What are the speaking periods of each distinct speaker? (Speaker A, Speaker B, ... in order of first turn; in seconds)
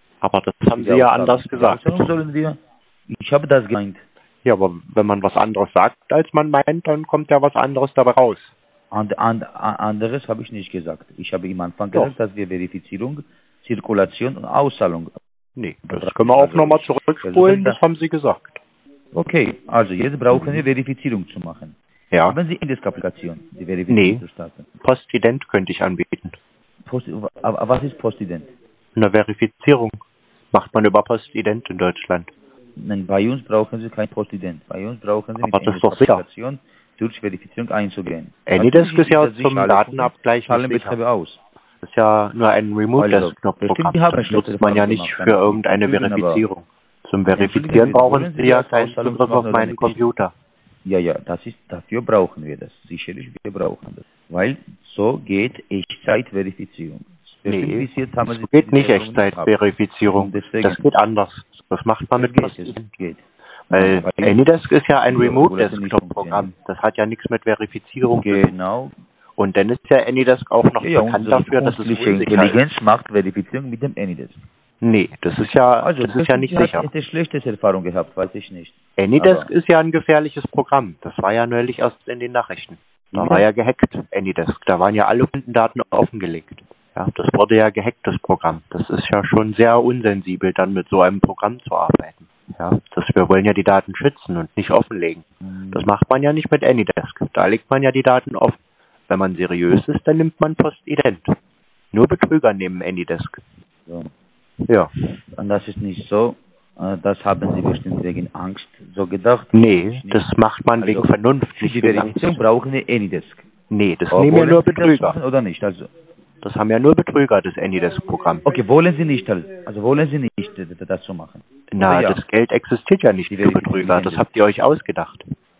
Speaker A: 0.2-2.1, 4.4-8.5, 15.6-18.6, 20.3-20.6, 23.9-24.2, 24.8-26.4, 28.9-30.0, 30.5-32.3, 35.4-36.2, 38.5-41.0, 41.8-50.3, 57.5-62.9, 63.7-68.5, 69.4-72.6, 74.8-76.9, 79.0-101.3, 101.9-103.4, 109.5-112.4, 113.7-115.2, 116.4-118.4, 121.7-125.2
Speaker B: 0.7-4.0, 8.9-15.1, 15.9-17.8, 19.1-21.8, 22.3-24.7, 26.9-28.5, 32.8-41.4, 43.0-46.4, 47.3-50.0, 50.8-59.6, 60.1-60.8, 62.1-64.4, 65.1-66.5, 68.0-68.9, 70.8-74.4, 75.8-79.5, 83.1-83.4, 95.5-95.9, 103.9-104.1, 105.4-113.4, 114.1-115.9, 118.5-122.2, 123.3-124.2